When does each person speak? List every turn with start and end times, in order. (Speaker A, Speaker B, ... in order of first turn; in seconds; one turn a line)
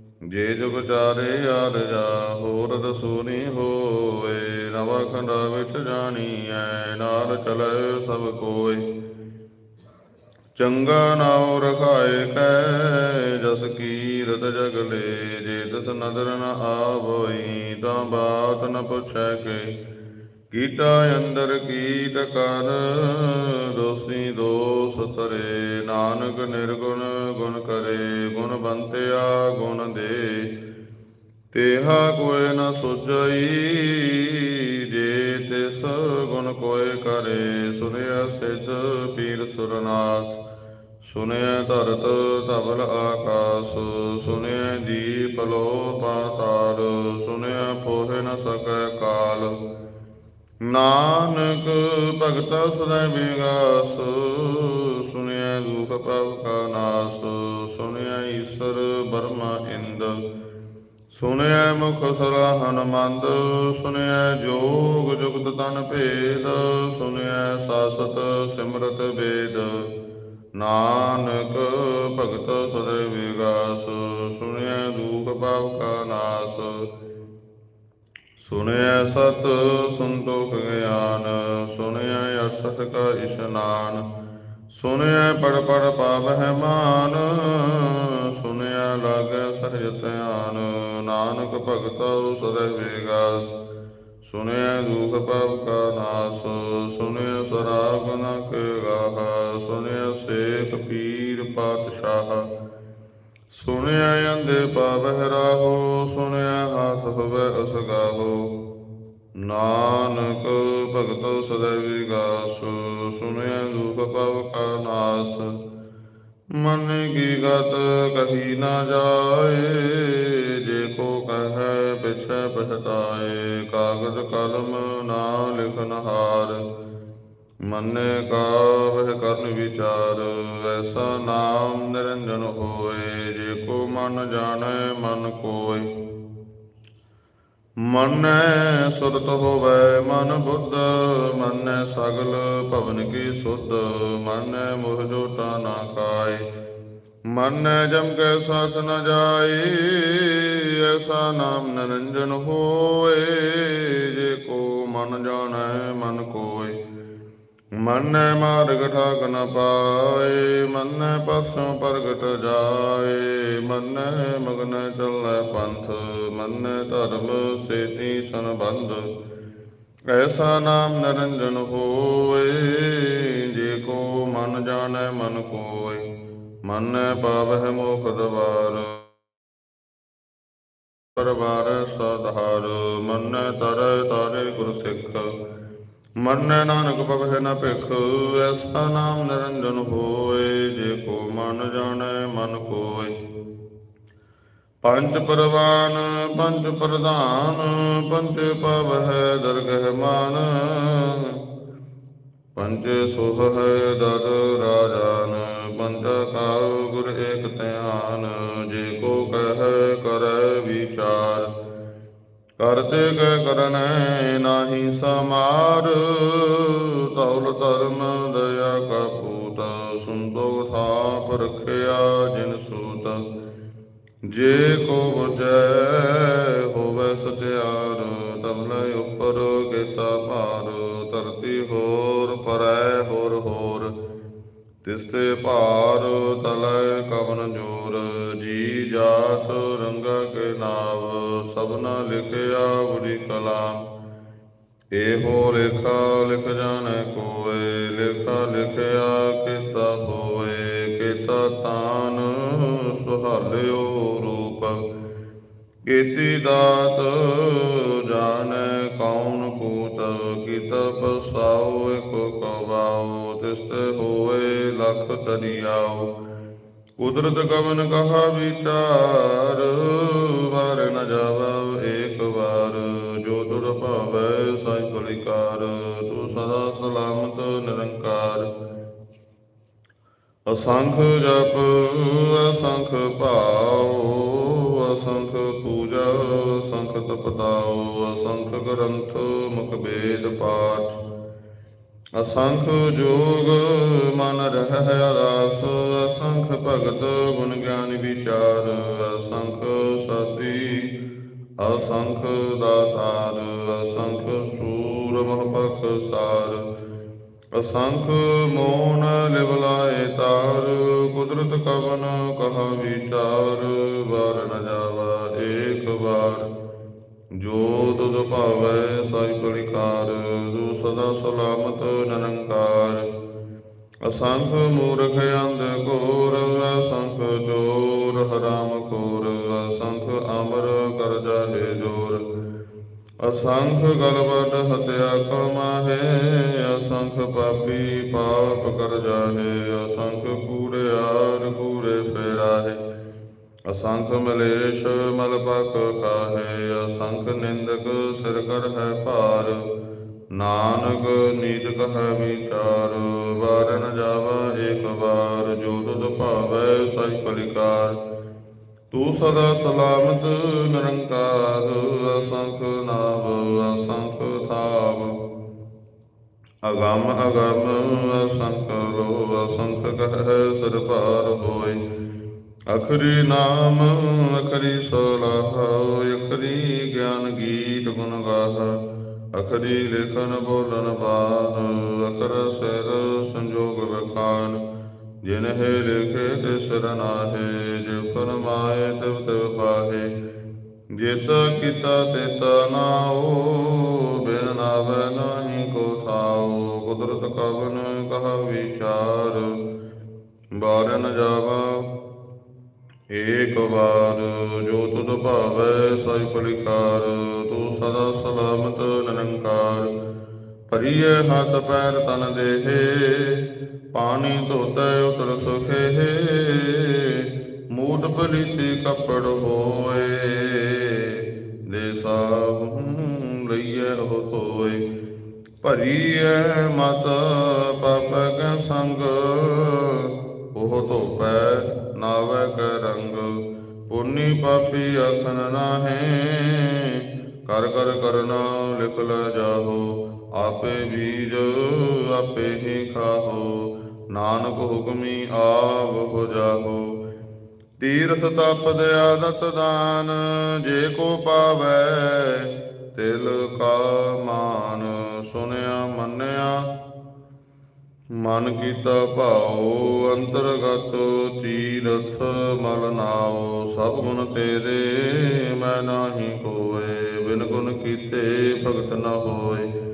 Speaker A: 0.2-8.9
Speaker A: 10.6-19.8
Speaker A: 20.5-30.5
Speaker A: 31.5-40.4
Speaker A: 41.0-49.6
Speaker A: 50.6-60.2
Speaker A: 61.1-69.9
Speaker A: 70.6-76.9
Speaker A: 78.4-84.0
Speaker A: 84.7-93.5
Speaker A: 94.2-102.5
Speaker A: 103.5-108.5
Speaker A: 109.4-115.6
Speaker A: 116.6-126.6
Speaker A: 127.7-135.9
Speaker A: 137.8-146.4
Speaker A: 147.3-156.8
Speaker A: 157.8-169.1
Speaker A: 170.1-176.1
Speaker A: 176.7-179.1
Speaker A: 181.2-185.3
Speaker A: 186.2-193.1
Speaker A: 194.8-201.4
Speaker A: 202.6-211.5
Speaker A: 212.6-223.2
Speaker A: 224.3-233.9
Speaker A: 234.8-243.8
Speaker A: 244.9-254.8
Speaker A: 255.9-266.1
Speaker A: 267.0-278.5
Speaker A: 280.5-291.0
Speaker A: 292.2-300.9
Speaker A: 301.6-306.7
Speaker A: 307.6-316.5
Speaker A: 317.4-323.1
Speaker A: 324.1-332.2
Speaker A: 333.2-342.8
Speaker A: 343.7-349.6
Speaker A: 350.3-358.0
Speaker A: 358.9-365.2
Speaker A: 366.6-371.8
Speaker A: 372.7-378.8
Speaker A: 379.3-384.6
Speaker A: 385.2-390.1
Speaker A: 391.0-399.6
Speaker A: 400.6-401.9
Speaker A: 403.1-409.9
Speaker A: 410.7-424.8
Speaker A: 425.6-433.3
Speaker A: 433.9-446.9
Speaker A: 447.8-456.7
Speaker A: 458.2-469.7